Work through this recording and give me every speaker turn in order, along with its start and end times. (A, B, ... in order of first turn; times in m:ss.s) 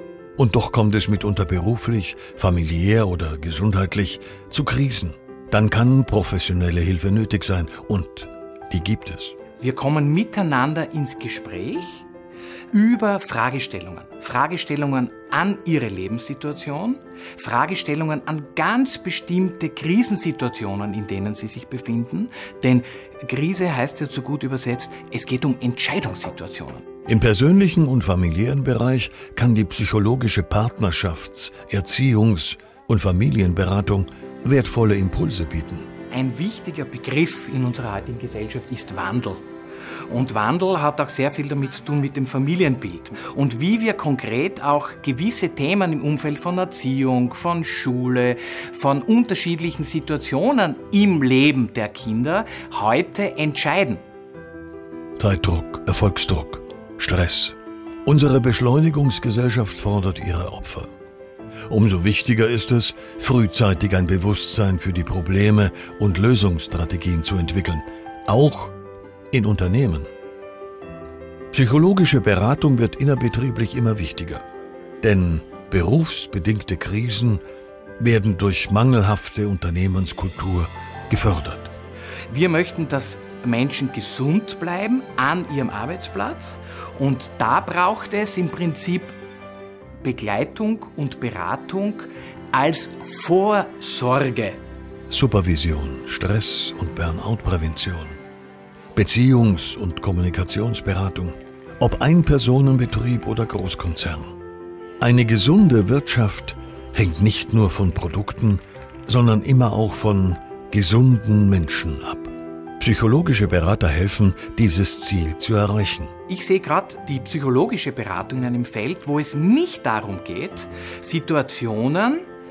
0:00.4-0:09.4 A
0:09.6-0:12.0 B
0:12.7-0:26.8 B
0:27.0-0:35.9 A
0:36.1-0:39.4 B
0:40.1-0:54.0 B
0:55.2-1:00.9 A
1:01.7-1:08.8 A
1:09.3-1:10.1 A
1:11.5-1:14.4 A
1:15.0-1:17.4 A
1:18.0-1:21.7 A
1:22.3-1:29.2 B
1:30.0-1:34.6 B
1:35.1-1:38.2 A
1:38.9-1:44.3 A
1:45.0-1:56.1 A
1:56.3-2:02.3 B